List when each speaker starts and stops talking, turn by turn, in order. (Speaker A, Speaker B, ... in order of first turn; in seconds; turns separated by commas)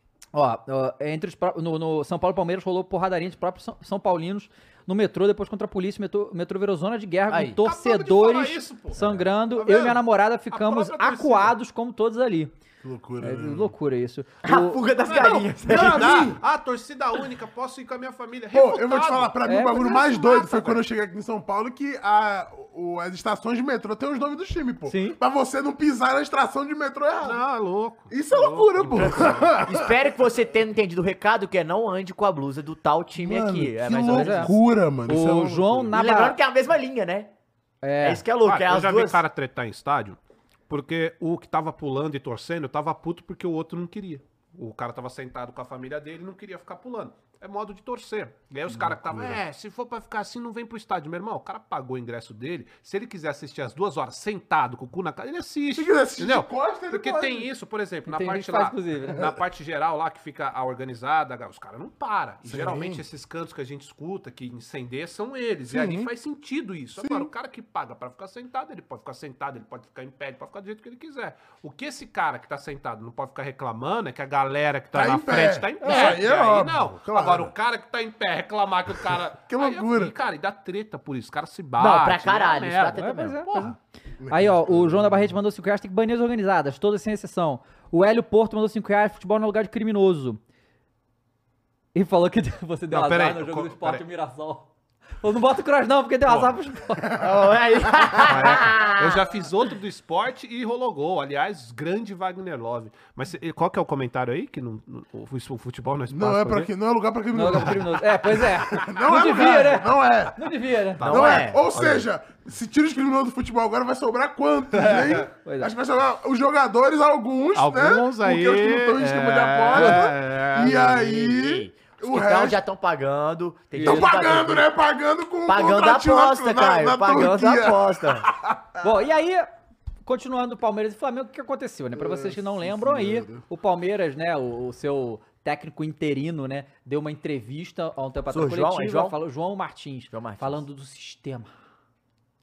Speaker A: 0.3-12.5, Speaker B: 7.3-7.6, Speaker C: 7.6-11.5, Speaker B: 9.0-9.2, Speaker D: 12.8-13.7, Speaker A: 13.2-14.9, Speaker B: 14.4-16.3, Speaker C: 15.1-19.3, Speaker D: 15.7-16.4, Speaker D: 18.5-27.4, Speaker A: 19.4-20.5, Speaker C: 20.3-20.8, Speaker A: 24.9-25.2, Speaker C: 27.2-29.6, Speaker D: 28.1-29.9, Speaker B: 29.0-34.6, Speaker D: 33.2-35.9, Speaker A: 34.1-36.4, Speaker B: 35.9-37.3, Speaker A: 37.8-38.2, Speaker B: 38.0-39.2, Speaker C: 38.4-83.8, Speaker D: 48.8-49.4, Speaker D: 55.7-57.5, Speaker A: 58.0-59.2, Speaker D: 62.5-63.0, Speaker D: 65.7-66.1, Speaker D: 67.0-67.3, Speaker D: 74.9-77.5, Speaker A: 75.8-76.2, Speaker D: 79.5-80.1, Speaker B: 81.8-83.4, Speaker A: 82.9-83.8, Speaker D: 84.2-85.3, Speaker A: 84.3-90.4, Speaker A: 91.9-97.2, Speaker C: 92.9-94.0, Speaker C: 96.3-96.6, Speaker D: 97.1-97.4, Speaker B: 97.2-99.2, Speaker C: 98.2-106.7, Speaker D: 106.1-110.5, Speaker A: 107.3-111.0, Speaker C: 111.0-112.1, Speaker D: 111.0-122.6, Speaker B: 111.1-111.6, Speaker C: 114.7-115.2, Speaker A: 115.4-115.7, Speaker C: 117.5-121.0, Speaker B: 120.6-124.7, Speaker A: 123.7-124.1, Speaker D: 123.8-128.7, Speaker B: 125.4-128.3, Speaker A: 128.8-129.5, Speaker A: 130.0-141.5, Speaker D: 131.9-133.4, Speaker B: 138.3-139.2, Speaker B: 140.1-140.6